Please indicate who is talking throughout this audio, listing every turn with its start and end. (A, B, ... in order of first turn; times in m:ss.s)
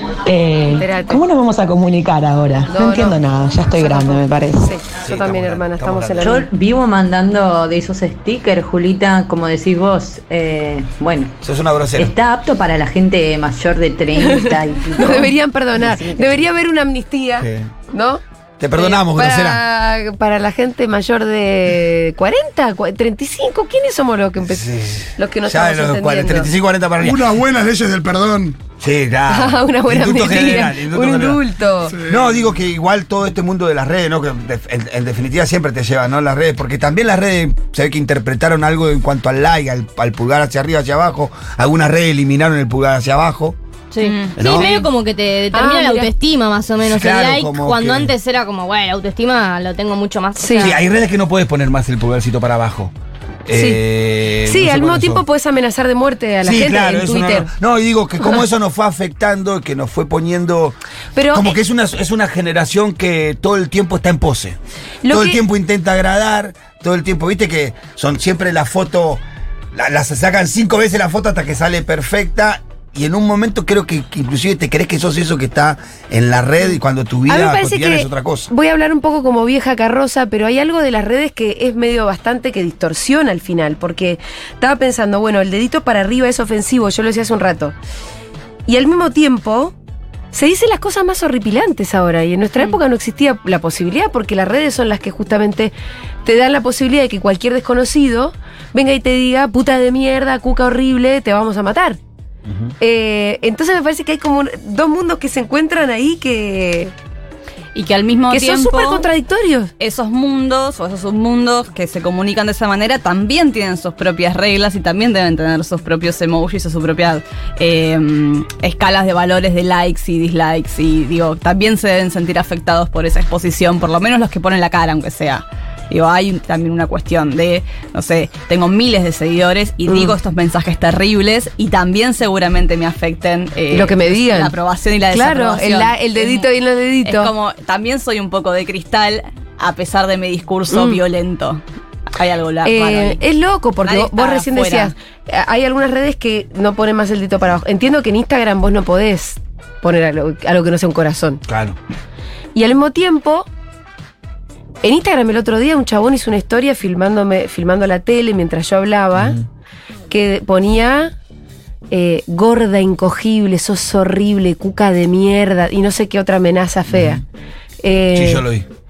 0:00.2-0:04.8 A
0:00.8-0:01.2 B
0:02.7-0:06.5 B
0:05.0-0:06.4 C
0:06.2-0:11.4 D
0:11.4-0:12.1 C
0:12.0-0:15.3 D
0:14.2-0:18.2 B
0:15.8-0:16.4 D
0:17.4-0:17.7 C
0:18.6-0:19.6 C
0:18.7-0:26.5 B
0:24.4-0:27.3 C
0:27.0-0:28.6 E
0:28.8-0:31.4 C
0:29.3-0:31.9 B
0:31.9-0:32.4 E
0:32.1-0:43.6 C
0:43.9-0:50.8 F
0:44.0-0:44.6 G
0:44.4-0:44.8 C
0:45.5-0:46.1 B
0:46.8-0:48.1 C
0:50.4-0:50.7 B
0:50.6-0:52.9 C
0:53.4-0:55.2 C
0:53.5-0:53.8 B
0:54.5-0:57.5 B
0:56.4-1:00.8 C
1:01.1-1:01.6 B
1:01.3-1:09.2 C
1:05.0-1:05.4 B
1:09.7-1:18.5 C
1:17.3-1:27.7 B
1:28.7-1:29.7 B
1:30.3-1:35.7 B
1:36.2-1:42.0 B
1:42.5-1:42.7 C
1:42.8-1:46.9 B
1:47.7-1:49.1 G
1:48.3-1:49.7 B
1:49.8-2:16.5 G
2:09.8-2:10.2 B
2:13.7-2:14.5 B
2:15.1-2:17.3 B
2:17.0-2:21.6 G
2:20.7-2:21.0 B
2:22.1-2:23.2 G
2:22.6-2:31.4 B
2:23.8-2:24.9 G
2:31.5-2:31.8 C
2:32.5-2:33.5 B
2:34.8-2:39.4 B
2:39.1-2:39.4 C
2:40.1-2:41.1 B
2:41.9-2:47.2 B
2:46.9-2:47.2 C
2:47.8-2:48.4 B
2:48.1-2:48.6 C